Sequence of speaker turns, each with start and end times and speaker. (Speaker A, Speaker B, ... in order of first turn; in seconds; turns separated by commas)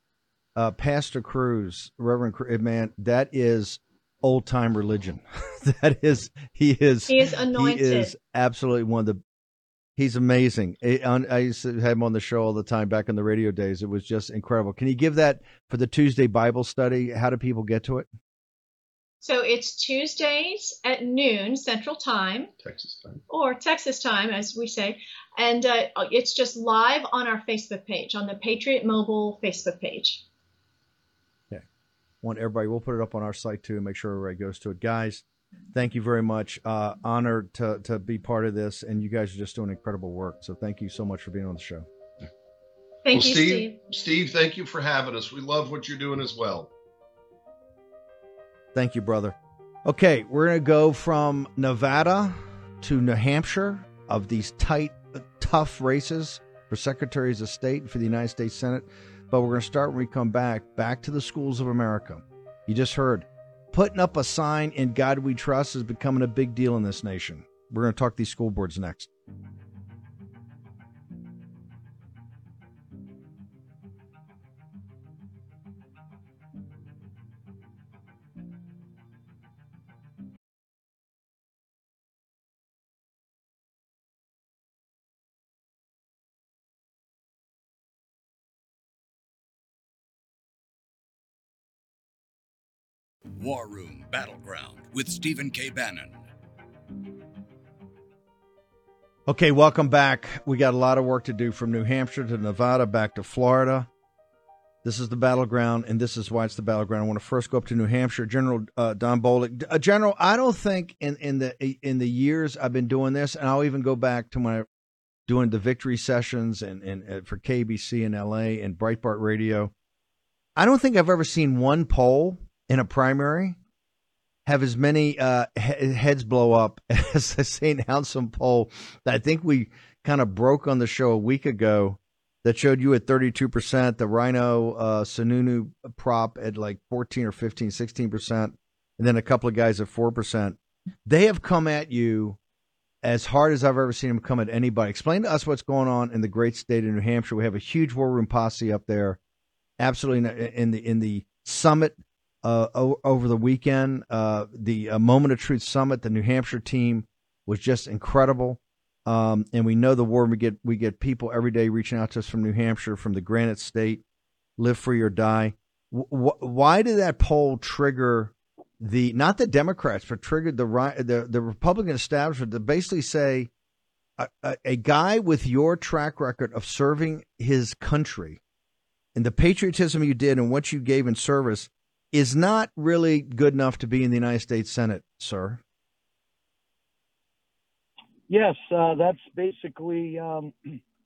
Speaker A: 0.6-9.2, Speaker B: 7.1-8.1, Speaker A: 9.9-18.1, Speaker B: 19.2-22.5, Speaker C: 22.6-23.2, Speaker B: 23.3-30.2, Speaker A: 32.2-41.9, Speaker B: 43.0-43.8, Speaker C: 43.1-46.7, Speaker A: 48.7-69.1, Speaker D: 93.3-96.2, Speaker A: 99.3-103.9, Speaker A: 104.8-114.7, Speaker A: 115.3-119.7, Speaker A: 120.5-123.6, Speaker A: 124.5-142.4, Speaker A: 143.0-149.2, Speaker A: 149.8-164.0, Speaker A: 164.6-173.5, Speaker A: 174.2-178.4, Speaker A: 179.1-185.6, Speaker E: 188.3-190.8